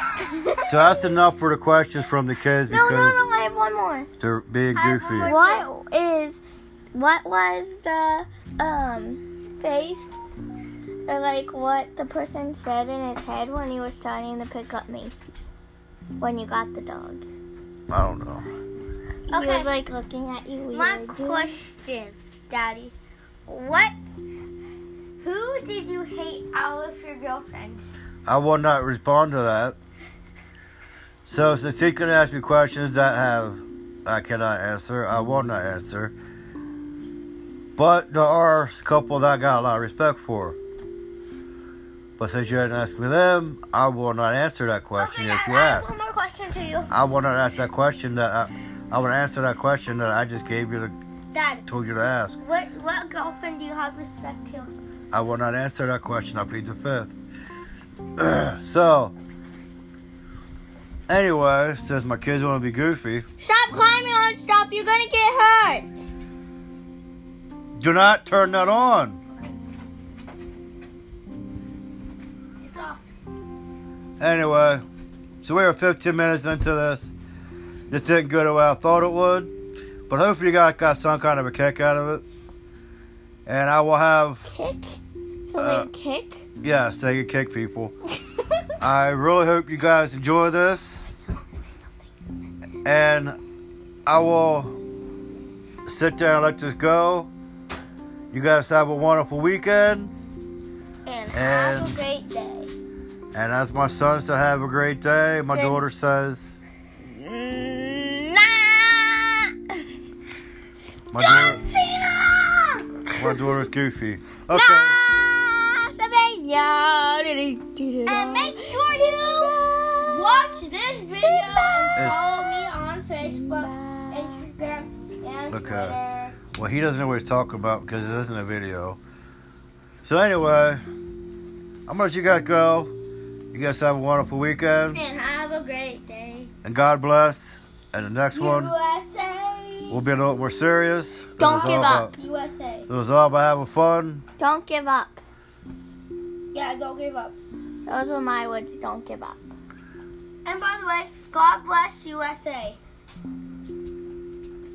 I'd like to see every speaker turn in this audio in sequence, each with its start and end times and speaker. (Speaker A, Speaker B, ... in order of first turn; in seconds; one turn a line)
Speaker A: 0.7-3.2
Speaker B: 2.7-4.1
Speaker A: 4.2-5.3
Speaker C: 4.7-5.7
Speaker B: 5.2-6.4
Speaker B: 6.9-10.2
Speaker B: 11.1-15.2
Speaker B: 16.2-17.2
Speaker A: 17.9-18.5
Speaker B: 19.3-21.6
Speaker C: 19.3-19.7
Speaker C: 20.7-22.9
Speaker C: 23.5-23.9
Speaker C: 25.2-27.9
Speaker A: 28.2-29.8
Speaker A: 31.2-36.1
Speaker A: 37.8-40.6
Speaker A: 42.2-45.9
Speaker C: 45.0-46.9
Speaker A: 46.9-50.9
Speaker C: 51.3-51.6
Speaker A: 51.6-52.4
Speaker C: 52.4-54.7
Speaker A: 55.1-57.1
Speaker A: 58.2-59.1
Speaker A: 61.1-63.2
Speaker B: 63.4-65.9
Speaker A: 67.8-69.2
Speaker C: 72.6-73.0
Speaker A: 74.2-74.8
Speaker A: 75.4-77.1
Speaker A: 77.9-79.5
Speaker A: 80.1-82.2
Speaker A: 83.5-84.5
Speaker B: 84.4-86.5
Speaker A: 85.5-85.9
Speaker A: 86.6-87.9
Speaker A: 88.8-91.0
Speaker A: 92.8-93.4
Speaker A: 94.0-94.8
Speaker A: 95.8-97.3
Speaker A: 98.3-100.1
Speaker C: 101.0-102.7
Speaker A: 101.3-102.0
Speaker A: 103.3-106.5
Speaker B: 105.5-105.8
Speaker B: 107.0-109.5
Speaker A: 111.1-111.6
Speaker B: 111.2-113.3
Speaker C: 111.4-111.8
Speaker A: 113.2-115.0
Speaker B: 114.5-120.6
Speaker C: 118.0-126.4
Speaker B: 121.1-122.0
Speaker A: 121.9-122.5
Speaker B: 123.1-124.5
Speaker A: 125.5-126.0
Speaker A: 126.5-129.0
Speaker A: 130.0-130.8
Speaker A: 131.9-132.9
Speaker A: 133.5-135.0
Speaker C: 134.9-136.5
Speaker A: 136.6-138.7
Speaker C: 138.3-140.0
Speaker A: 139.9-142.1
Speaker B: 141.4-142.1
Speaker C: 141.4-142.9
Speaker A: 142.9-144.2
Speaker B: 144.4-145.2
Speaker C: 146.5-147.3
Speaker B: 147.9-149.4
Speaker C: 150.4-152.8